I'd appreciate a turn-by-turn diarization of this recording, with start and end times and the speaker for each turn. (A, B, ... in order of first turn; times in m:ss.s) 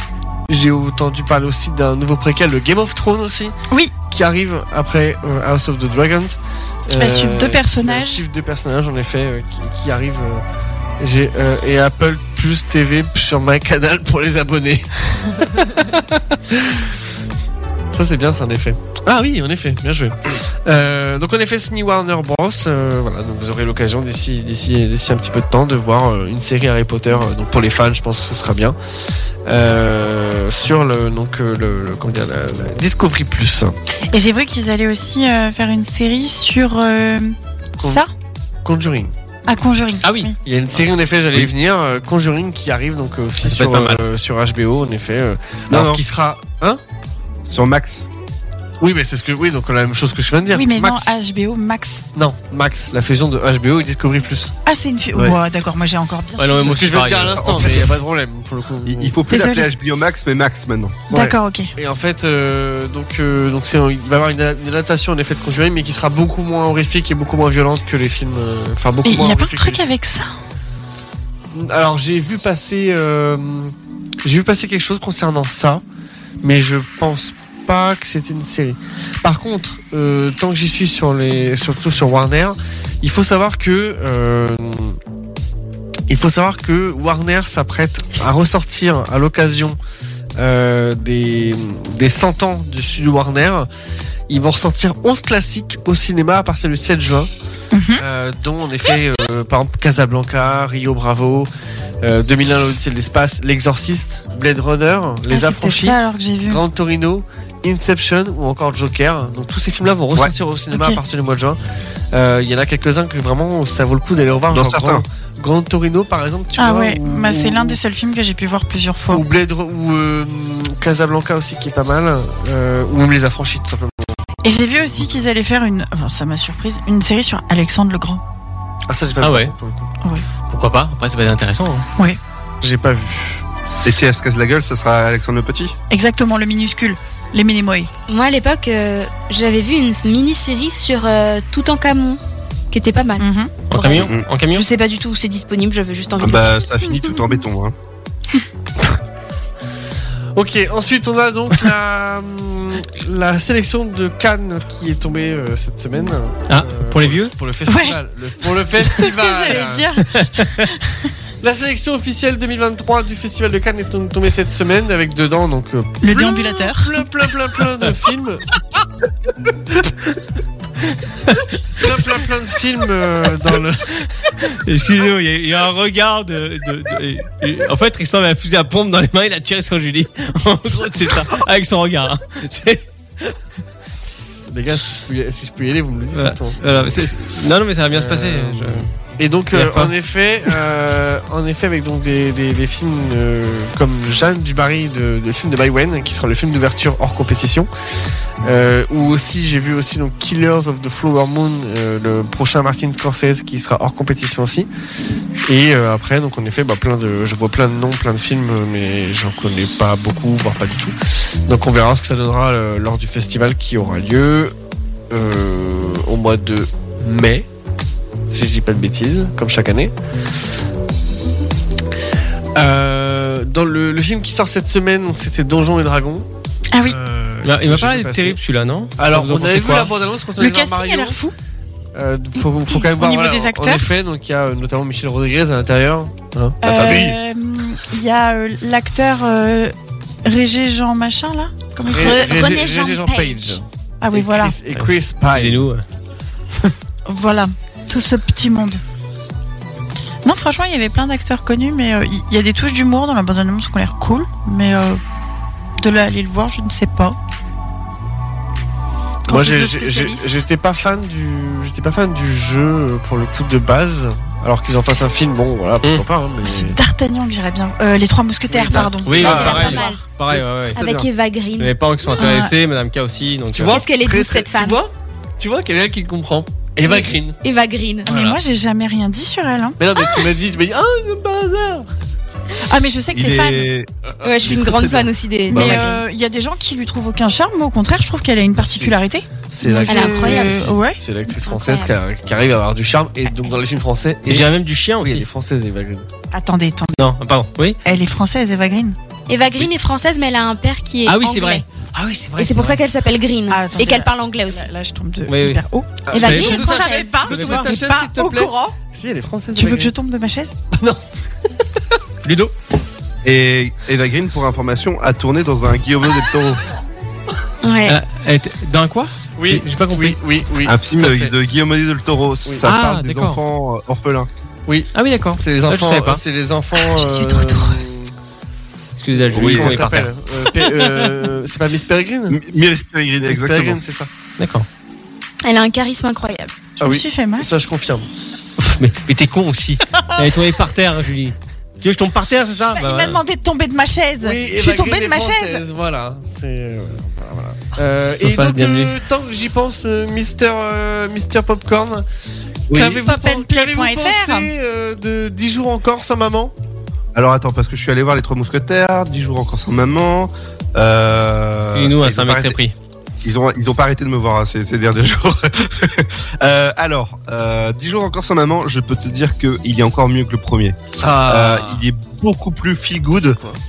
0:00.5-0:10.4 A
0:06.9-0:08.2 B
0:11.0-0:16.9 A
0:17.9-0:28.8 A
0:29.4-0:33.7 A
0:34.1-0:38.1 B
0:38.6-0:39.1 A
0:39.5-0:40.4 B
0:40.0-0:40.3 C
0:40.4-0:46.8 A
0:43.4-0:44.0 C
0:45.7-0:46.0 D
0:47.4-0:48.1 D
0:48.8-0:51.1 A
0:50.5-0:52.0 B
0:52.1-0:54.5 A
0:54.6-0:56.8 B
0:56.4-0:57.8 C
0:56.6-0:59.2 A
0:57.4-0:57.9 D
0:58.8-1:01.1 D
0:59.3-0:59.7 B
1:01.1-1:09.8 A
1:01.1-1:01.7 B
1:09.0-1:10.3 B
1:11.5-1:13.7 A
1:14.2-1:15.8 A
1:16.4-1:25.0 A
1:26.1-1:29.8 A
1:30.4-1:33.7 A
1:34.3-1:37.3 A
1:37.7-1:38.0 B
1:38.0-1:41.5 A
1:42.0-1:51.6 A
1:45.3-1:46.6 B
1:50.7-1:51.0 B
1:52.1-1:57.8 A
1:54.5-1:55.0 D
1:56.6-1:59.2 B
1:59.1-2:04.2 A
2:04.4-2:08.2 B
2:04.8-2:05.2 A
2:08.9-2:09.9 A
2:09.2-2:09.5 C
2:10.5-2:11.9 C
2:12.6-2:13.4 A
2:13.8-2:15.7 D
2:15.9-2:17.9 B
2:18.1-2:22.2 E
2:22.7-2:26.6 E
2:23.2-2:23.5 B
2:23.7-2:24.6 C
2:23.9-2:24.2 D
2:26.2-2:27.7 D
2:30.3-2:39.9 A
2:36.5-2:37.3 C
2:37.7-2:38.0 B
2:38.7-2:40.9 B
2:41.4-2:48.4 A
2:46.0-2:47.0 B
2:51.8-2:54.0 A
2:54.6-3:03.3 C
3:04.4-3:07.2 A
3:06.1-3:08.9 C
3:07.9-3:17.7 A
3:09.5-3:09.9 C
3:18.4-3:24.7 A
3:25.4-3:31.0 A
3:31.5-3:34.5 A
3:35.1-3:37.4 A
3:38.3-3:39.9 A
3:42.6-3:46.2 A
3:46.8-3:48.4 A
3:47.4-3:49.9 C
3:49.0-3:51.2 A
3:50.4-3:51.3 B
3:51.9-3:57.2 A
3:52.6-3:53.9 B
3:56.6-3:59.7 B
4:00.2-4:02.6 B
4:01.9-4:03.6 E
4:01.9-4:05.6 A
4:04.0-4:04.6 B
4:04.7-4:05.8 C
4:07.0-4:08.8 B
4:10.2-4:15.0 B
4:15.8-4:17.2 B
4:19.3-4:20.4 B
4:19.3-4:26.8 A
4:26.4-4:30.0 B
4:28.5-4:29.5 A
4:29.0-4:30.8 C
4:29.2-4:30.0 E
4:29.2-4:29.8 D
4:30.8-4:31.1 D
4:30.8-4:32.4 E
4:31.6-4:33.8 C
4:32.2-4:32.5 B
4:33.5-4:37.4 A
4:33.7-4:34.8 E
4:36.8-4:38.1 E
4:38.0-4:38.4 A
4:38.1-4:39.8 B
4:39.8-4:41.9 A
4:42.7-4:43.7 B
4:43.1-4:43.9 D
4:44.2-4:46.0 E
4:44.4-4:46.0 A
4:45.5-4:51.0 B
4:48.6-4:49.0 A
4:49.5-4:56.0 A
4:49.9-4:50.6 E
4:51.4-4:51.9 E
4:54.3-4:55.3 C
4:56.3-4:57.0 B
4:57.0-4:57.8 C
4:57.8-4:59.0 B
4:59.3-5:01.6 E
5:01.0-5:02.8 C
5:02.4-5:04.7 E
5:03.5-5:08.8 B
5:05.3-5:05.6 C
5:06.1-5:07.2 E
5:06.1-5:09.9 A
5:06.1-5:06.6 C
5:07.3-5:07.7 C
5:09.5-5:10.5 B
5:10.7-5:11.0 A
5:12.2-5:12.5 C
5:13.2-5:16.6 D
5:17.6-5:18.0 E
5:17.8-5:20.2 C
5:19.4-5:21.3 A
5:20.6-5:24.3 D
5:22.6-5:23.4 C
5:24.7-5:28.1 A
5:24.9-5:26.2 C
5:26.9-5:27.8 B
5:29.0-5:30.1 C
5:29.2-5:32.4 A
5:29.3-5:29.9 D
5:30.8-5:31.0 C
5:32.3-5:33.8 D
5:33.2-5:34.1 A
5:34.4-5:34.6 C
5:35.4-5:36.5 E
5:36.8-5:38.1 A
5:36.8-5:37.5 B
5:38.6-5:43.2 C
5:42.7-5:45.6 B
5:44.2-5:52.0 A
5:48.1-5:49.0 C
5:52.7-5:53.0 D
5:52.7-5:56.5 A
5:53.0-5:54.5 B
5:57.1-6:02.0 D
6:01.7-6:02.7 C
6:02.0-6:02.5 A
6:03.2-6:13.4 D
6:11.0-6:11.8 A
6:13.1-6:13.6 A